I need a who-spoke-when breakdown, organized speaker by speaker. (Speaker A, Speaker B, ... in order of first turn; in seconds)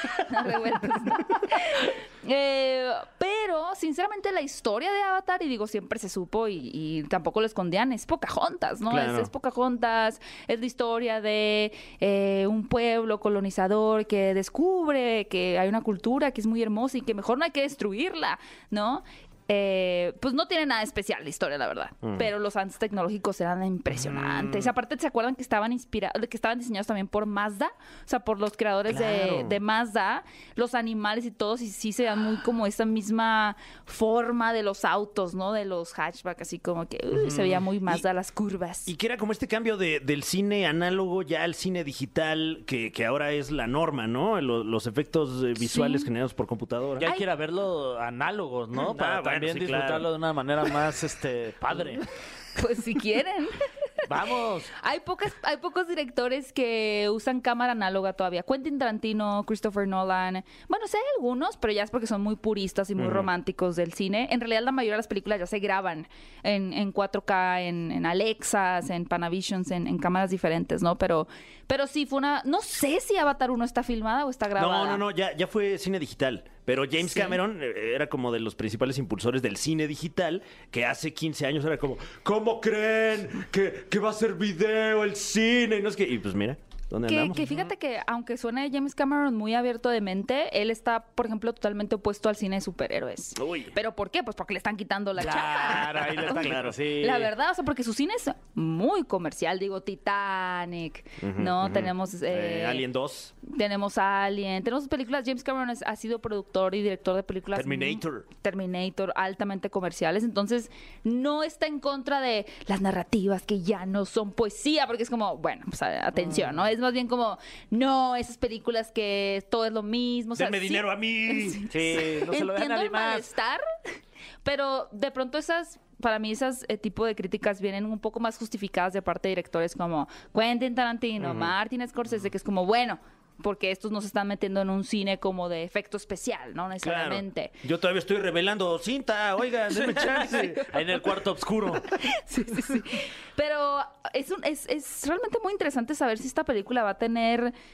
Speaker A: 0.3-38.9, 45.6-46.1, 52.6-53.5, 54.8-75.0, 77.0-77.4, 87.1-102.8, 103.4-123.6, 124.4-137.5, 142.1-147.5
Speaker B: 8.9-9.3, 22.0-22.3, 24.0-24.7, 28.9-29.6, 38.9-47.1, 48.7-50.1, 63.0-63.3, 74.6-87.7, 93.4-93.7, 96.3-96.8, 101.2-103.3, 107.5-108.3, 120.4-121.6, 131.2-131.5, 136.8-140.6
Speaker C: 37.1-37.6, 47.0-52.0, 54.1-54.7, 95.2-97.3, 116.2-116.5, 121.7-123.3, 139.8-141.8